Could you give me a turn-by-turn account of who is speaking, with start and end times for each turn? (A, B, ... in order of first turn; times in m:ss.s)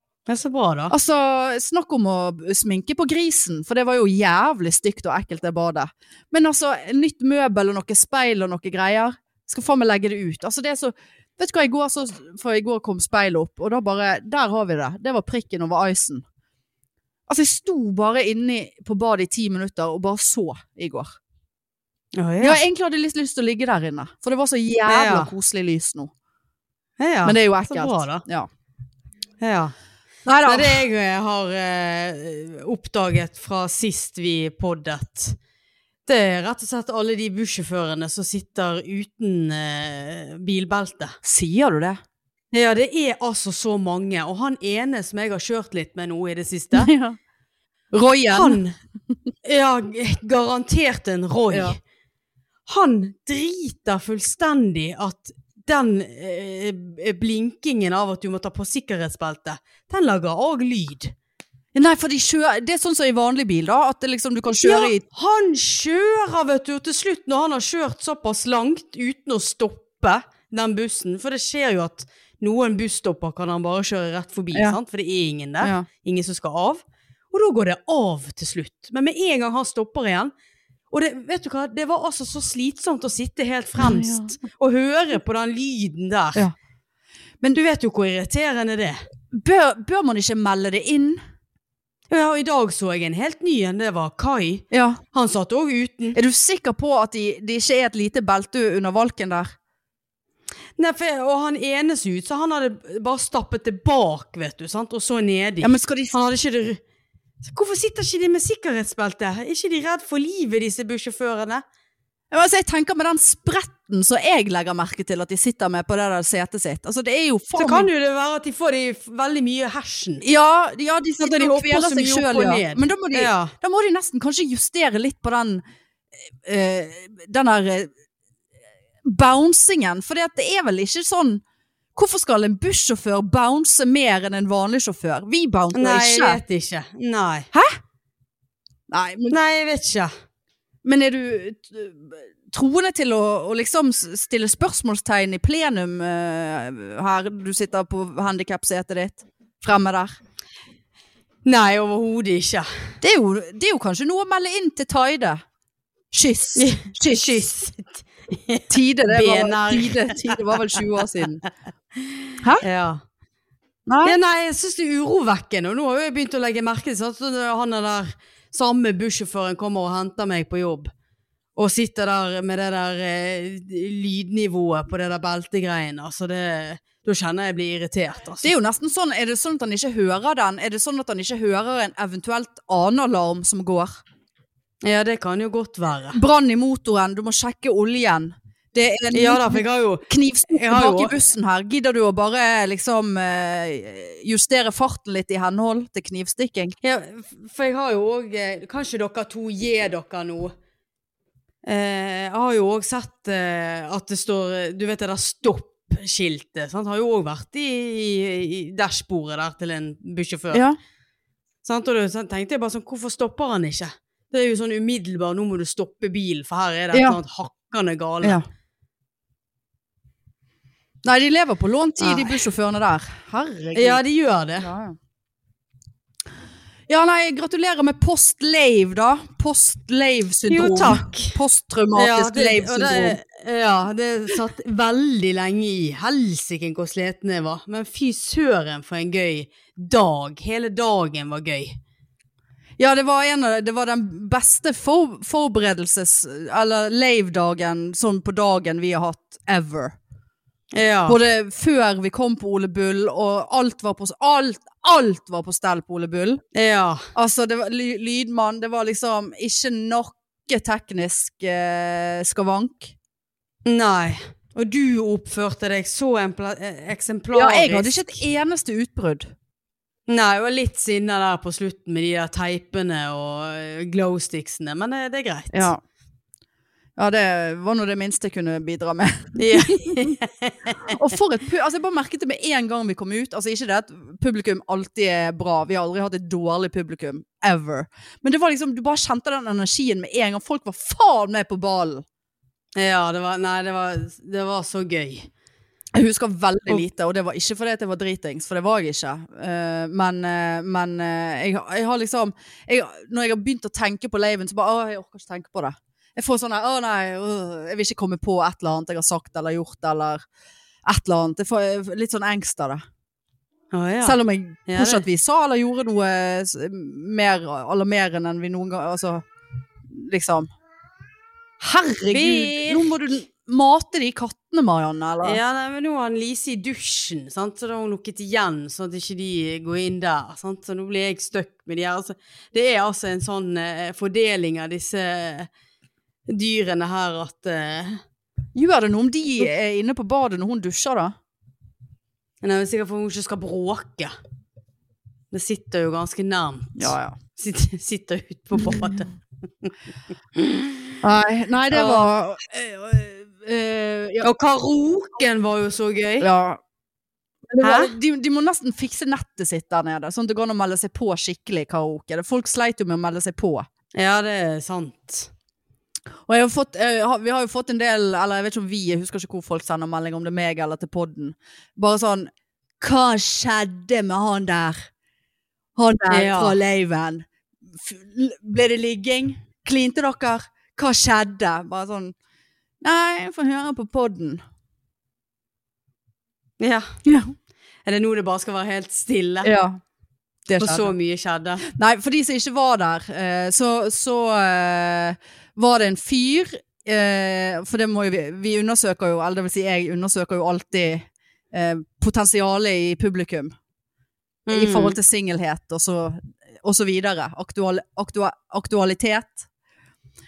0:00.3-0:00.9 A
0:00.9-0:16.2 B
0:17.3-0:21.2 B
0:22.2-0:22.6 A
0:22.4-0:26.1 B
0:24.9-0:25.3 A
0:27.0-0:28.2 A
0:27.2-0:28.5 B
0:29.4-0:29.7 A
0:30.3-0:30.8 B
0:30.5-0:35.4 A
0:36.1-0:41.2 A
0:41.2-0:42.0 B
0:42.5-0:46.9 A
0:46.7-0:47.2 B
0:47.9-0:48.6 B
0:48.3-0:48.8 A
0:49.4-0:51.8 A
0:51.5-0:51.8 B
0:52.7-1:01.1 A
1:01.8-1:05.0 B
1:04.6-1:20.3 A
1:14.5-1:14.8 B
1:15.6-1:15.9 B
1:20.9-1:26.5 A
1:23.8-1:24.4 B
1:27.6-1:29.0 A
1:29.3-1:31.2 B
1:32.1-1:36.2 A
1:34.7-1:35.0 B
1:36.2-1:39.5 B
1:40.8-1:46.8 A
1:45.6-1:46.2 B
1:47.4-1:51.6 A
1:52.3-1:57.9 B
1:57.6-2:00.2 A
2:00.2-2:05.6 B
2:01.2-2:03.5 A
2:06.4-2:07.9 B
2:09.0-2:11.4 B
2:12.0-2:16.4 B
2:15.7-2:17.5 A
2:18.9-2:19.4 B
2:19.3-2:20.1 A
2:20.8-2:30.2 B
2:31.4-2:32.7 A
2:33.0-2:35.4 B
2:36.1-2:37.5 B
2:36.6-2:40.8 A
2:38.7-2:41.4 B
2:42.0-2:43.0 A
2:43.9-2:44.2 B
2:44.0-2:50.9 A
2:51.6-2:58.5 A
2:58.4-3:04.0 B
3:04.8-3:06.2 A
3:06.1-3:16.8 B
3:09.1-3:11.2 A
3:16.8-3:20.5 A
3:21.7-3:30.6 A
3:30.5-3:30.8 B
3:31.6-3:38.4 A
3:36.9-3:37.2 B
3:41.0-3:44.0 B
3:42.0-3:42.4 A
3:43.8-3:44.7 A
3:44.6-3:45.0 B
3:46.9-3:53.2 B
3:50.5-3:51.4 A
3:52.0-4:01.8 A
4:02.8-4:10.0 B
4:10.7-4:11.2 A
4:11.1-4:16.4 B
4:16.5-4:17.1 A
4:17.2-4:22.9 B
4:23.6-4:28.2 A
4:27.3-4:29.3 B
4:30.1-4:35.7 A
4:35.5-4:35.8 B
4:37.0-4:40.2 B
4:39.4-4:40.9 A
4:40.9-4:52.0 B
4:52.8-4:55.3 A
4:56.0-5:10.2 B
5:10.9-5:12.8 B
5:13.7-5:15.0 A
5:14.0-5:19.2 B
5:19.9-5:20.5 B
5:21.6-5:25.4 B
5:22.1-5:22.9 A
5:25.2-5:35.5 A
5:36.3-5:38.0 A
5:38.6-5:41.1 B
5:42.4-5:44.1 A
5:45.3-5:49.7 A
5:46.8-5:47.2 B
5:50.4-5:50.9 A
5:51.0-5:54.3 B
5:51.7-5:52.1 A
5:54.2-5:56.3 A
5:56.2-5:56.6 B
5:57.5-6:03.7 B
5:57.6-5:57.9 A
6:04.0-6:05.3 A
6:06.3-6:14.9 B
6:15.8-6:17.3 B
6:16.1-6:16.6 A
6:17.8-6:22.2 B
6:22.8-6:24.4 B
6:26.6-6:26.9 A
6:27.0-6:27.3 B
6:27.8-6:29.5 A
6:29.4-6:29.8 B
6:30.5-6:30.9 B
6:30.6-6:31.6 A
6:31.7-6:43.5 B
6:44.5-6:45.0 A
6:44.5-6:49.5 B